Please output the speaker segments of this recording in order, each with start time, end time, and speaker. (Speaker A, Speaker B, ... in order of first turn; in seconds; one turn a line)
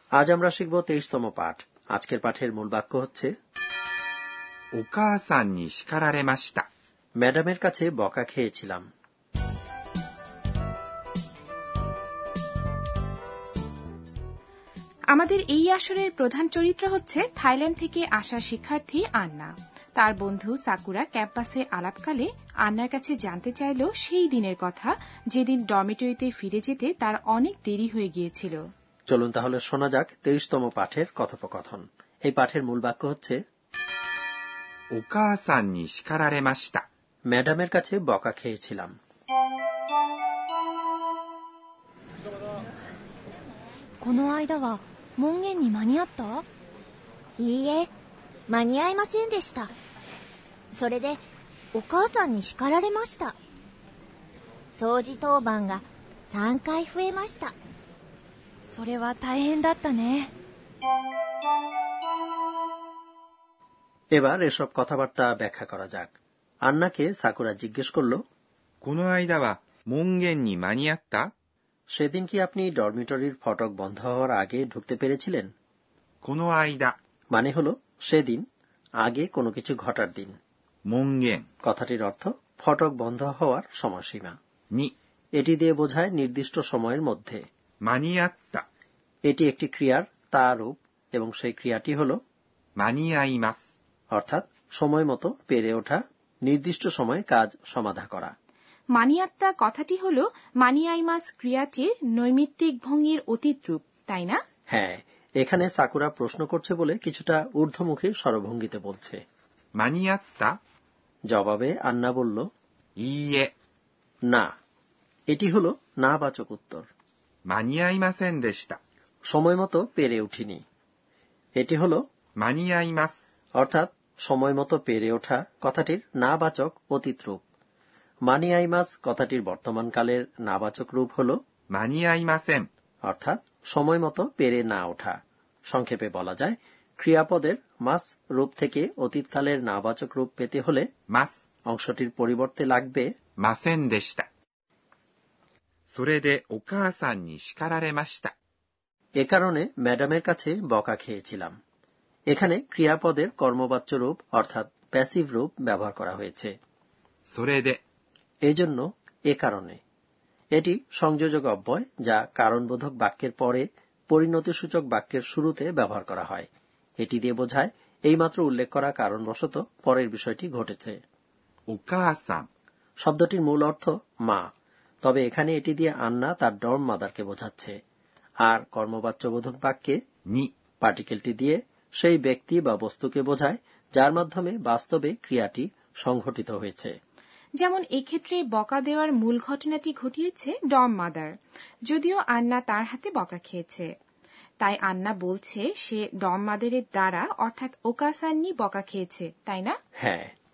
Speaker A: 0.2-3.3
Speaker B: 4.8-6.7
Speaker A: 7.2-8.8
Speaker C: 15.1-28.6
Speaker A: 29.1-33.4
Speaker B: 34.9-36.9
Speaker A: 37.3-38.9
Speaker D: 44.0-46.5
Speaker E: 47.4-47.9
Speaker E: 48.5-49.7
Speaker E: 50.7-51.2
Speaker E: 51.7-53.4
Speaker E: 54.8-57.5
Speaker D: 58.7-60.3
Speaker A: 64.2-66.1
Speaker A: 66.7-68.2
Speaker B: 68.8-71.3
Speaker A: 72.0-75.5
Speaker B: 76.2-77.0
Speaker A: 77.3-78.4
Speaker A: 79.0-80.4
Speaker B: 80.9-81.5
Speaker A: 81.7-84.4
Speaker A: 85.4-87.4
Speaker B: 87.8-88.7
Speaker A: 89.3-92.2
Speaker B: 92.8-93.7
Speaker A: 94.1-98.3
Speaker C: 99.0-104.4
Speaker A: 104.7-109.2
Speaker B: 109.8-110.5
Speaker A: 111.3-112.4
Speaker B: 113.0-113.5
Speaker A: 115.3-116.9
Speaker B: 117.5-118.8
Speaker A: 119.3-120.6
Speaker A: 121.6-122.0
Speaker B: 122.4-123.2
Speaker A: 123.6-127.4
Speaker A: 128.3-131.4
Speaker B: 131.7-132.7
Speaker A: 133.1-135.2
Speaker A: 135.7-140.9
Speaker A: 141.7-143.1
Speaker B: 143.4-144.3
Speaker B: 145.9-148.3
Speaker A: 149.2-151.5
Speaker A: 152.3-156.5
Speaker B: 157.3-157.8
Speaker A: 158.5-159.8
Speaker A: 160.6-166.5
Speaker A: 167.0-171.0
Speaker B: 171.7-172.5
Speaker A: 173.0-174.5
Speaker A: 175.0-177.8
Speaker A: 178.4-180.0
Speaker A: 180.8-186.9
Speaker C: 187.6-191.3
Speaker C: 191.9-193.9
Speaker C: 194.6-199.8
Speaker A: 200.0-200.3